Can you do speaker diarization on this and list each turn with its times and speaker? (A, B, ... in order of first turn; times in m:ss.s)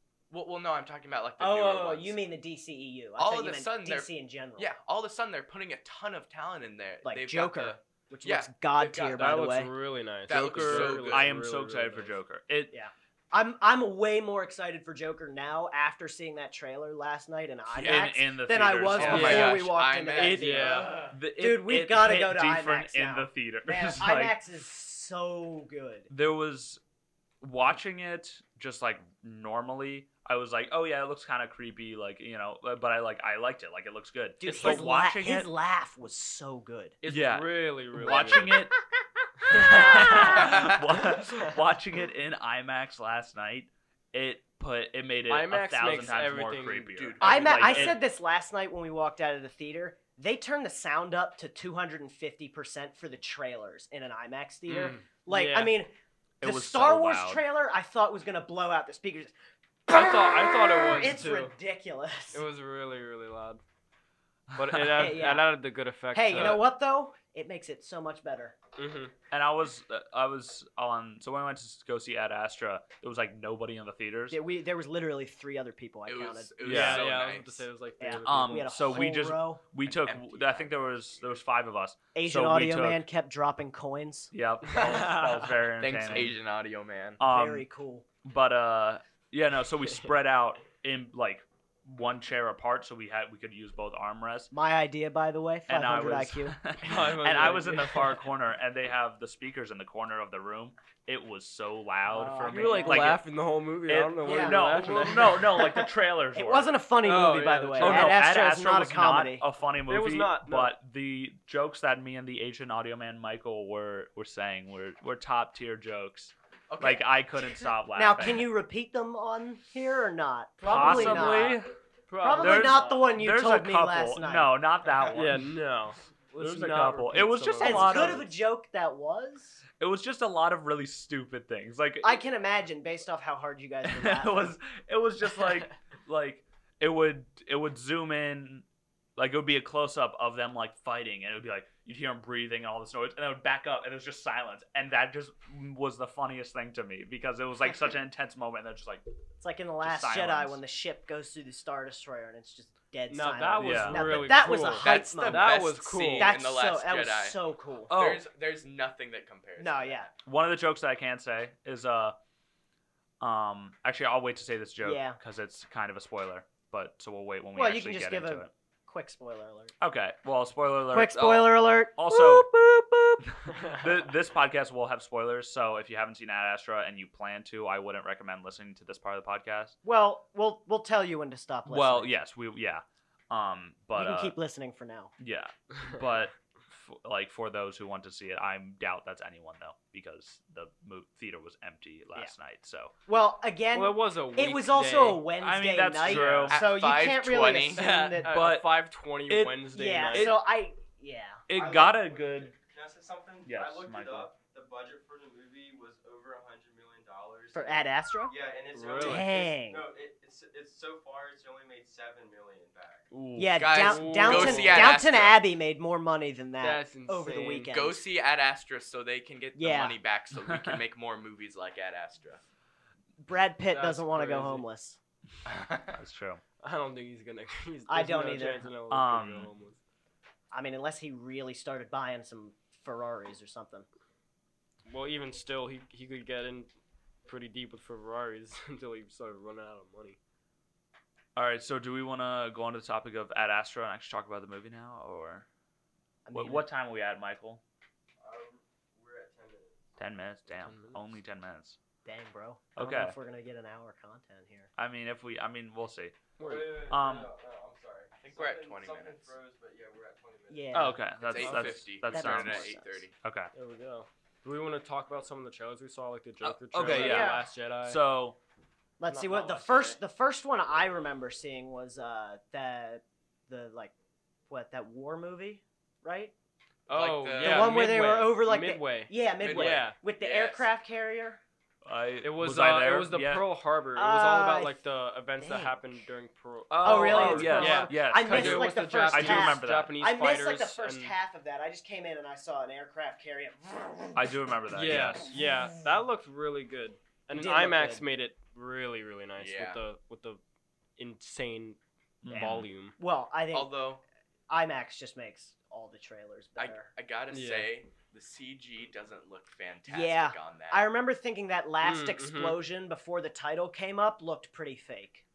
0:00.3-0:02.2 A
0:01.4-0:04.7 B
0:03.2-0:09.5 A
0:07.0-0:09.7 B
0:09.1-0:12.1 C
0:10.3-0:11.3 A
0:10.3-0:12.7 D
0:12.7-0:26.1 B
0:17.7-0:18.1 A
0:17.8-0:19.7 D
0:19.0-0:21.1 A
0:19.0-0:19.5 C
0:20.1-0:21.0 C
0:21.1-0:24.4 D
0:26.1-0:26.8 D
0:27.4-0:35.5 D
0:34.4-0:37.0 B
0:34.4-0:34.9 C
0:37.0-0:38.6 C
0:37.0-0:38.7 D
0:39.5-0:40.5 C
0:39.5-0:48.0 D
0:39.5-0:40.5 B
0:40.2-0:40.8 A
0:45.3-0:47.9 C
0:46.9-0:47.9 A
0:47.2-0:59.3 B
0:54.7-0:55.8 C
0:56.4-0:57.4 D
0:59.9-1:02.5 B
0:59.9-1:01.5 C
1:02.3-1:03.6 C
1:04.5-1:05.2 D
1:04.6-1:06.6 C
1:04.9-1:05.5 B
1:06.1-1:08.6 B
1:06.3-1:06.6 D
1:08.8-1:09.1 C
1:09.3-1:14.4 D
1:14.3-1:16.9 B
1:16.0-1:17.6 A
1:16.6-1:17.0 D
1:16.6-1:19.1 C
1:18.0-1:19.6 B
1:18.2-1:23.0 D
1:19.9-1:20.8 A
1:22.1-1:24.3 B
1:24.3-1:26.4 D
1:24.7-1:25.4 C
1:25.8-1:27.2 A
1:27.2-1:27.6 D
1:27.2-1:28.0 B
1:28.2-1:34.5 D
1:34.5-1:36.6 B
1:35.7-1:43.3 D
1:36.8-1:38.2 C
1:42.1-1:43.2 B
1:42.4-1:45.7 C
1:43.8-1:46.7 D
1:44.2-1:49.4 B
1:47.0-1:48.2 C
1:47.8-1:58.5 D
1:49.9-1:50.7 C
1:56.7-1:57.1 A
1:57.9-2:01.6 B
2:00.6-2:01.5 C
2:00.7-2:01.7 D
2:02.1-2:03.1 C
2:02.2-2:04.5 B
2:02.3-2:05.4 D
2:05.1-2:08.2 C
2:06.4-2:08.3 D
2:07.6-2:09.6 B
2:09.8-2:12.2 D
2:12.0-2:14.6 B
2:13.8-2:18.6 D
2:19.2-2:29.0 D
2:29.4-2:37.9 B
2:29.8-2:30.6 D
2:33.1-2:36.4 C
2:33.6-2:34.0 D
2:34.7-2:40.1 A
2:37.9-2:38.2 D
2:39.6-2:40.1 B
2:40.2-2:42.2 D
2:43.2-2:48.5 D
2:44.8-2:45.2 B
2:47.5-2:49.7 B
2:49.8-2:52.5 D
2:50.9-2:53.2 B
2:53.2-2:59.8 D
2:59.8-3:02.1 B
3:01.7-3:04.4 D
3:03.9-3:05.1 B
3:05.2-3:12.9 D
3:13.1-3:18.4 B
3:13.7-3:15.3 C
3:15.4-3:16.6 D
3:16.0-3:16.6 C
3:16.5-3:17.8 A
3:17.7-3:20.4 C
3:18.2-3:18.8 D
3:19.3-3:20.4 D
3:19.7-3:21.4 B
3:21.5-3:22.5 D
3:21.5-3:33.1 E
3:23.4-3:24.3 D
3:27.5-3:28.3 B
3:28.7-3:29.4 C
3:29.0-3:29.8 B
3:33.1-3:33.7 D
3:33.3-3:38.0 B
3:33.6-3:35.4 A
3:33.7-3:35.0 C
3:36.6-3:37.7 C
3:37.7-3:42.4 A
3:39.6-3:40.0 B
3:40.4-3:40.8 D
3:43.2-3:45.0 B
3:43.7-3:44.7 C
3:45.5-3:45.9 A
3:45.9-3:46.4 D
3:46.6-3:49.8 C
3:47.9-3:48.6 B
3:48.9-3:49.5 D
3:50.5-3:53.8 B
3:54.8-3:56.7 C
3:57.2-4:00.2 C
4:01.4-4:05.4 D
4:06.2-4:06.6 B
4:06.3-4:07.6 D
4:08.2-4:09.8 E
4:10.0-4:11.8 D
4:10.5-4:11.0 C
4:12.0-4:14.7 B
4:12.7-4:13.1 D
4:14.8-4:16.2 D
4:16.4-4:16.9 C
4:16.4-4:20.9 E
4:16.8-4:17.3 D
4:18.1-4:19.4 A
4:20.5-4:23.0 B
4:20.7-4:23.5 D
4:21.2-4:23.1 A
4:23.5-4:28.0 C
4:26.4-4:28.4 D
4:26.8-4:27.5 B
4:29.0-4:33.9 B
4:29.0-4:30.0 C
4:34.5-4:36.3 B
4:36.9-4:40.0 C
4:36.9-4:37.9 A
4:37.4-4:41.4 B
4:39.4-4:40.7 A
4:41.8-4:43.4 D
4:42.2-4:51.1 C
4:44.0-4:44.8 B
4:45.4-4:45.8 B
4:46.7-4:50.0 D
4:46.8-4:54.2 B
4:54.2-4:55.3 D
4:54.7-5:00.4 C
4:57.3-4:58.0 B
4:59.4-4:59.8 A
5:01.0-5:01.8 C
5:02.2-5:02.7 D
5:02.3-5:02.9 C
5:02.3-5:03.8 B
5:03.5-5:04.0 A
5:04.5-5:06.9 B
5:06.6-5:10.8 A
5:07.3-5:07.7 C
5:09.9-5:15.2 B
5:11.8-5:12.6 C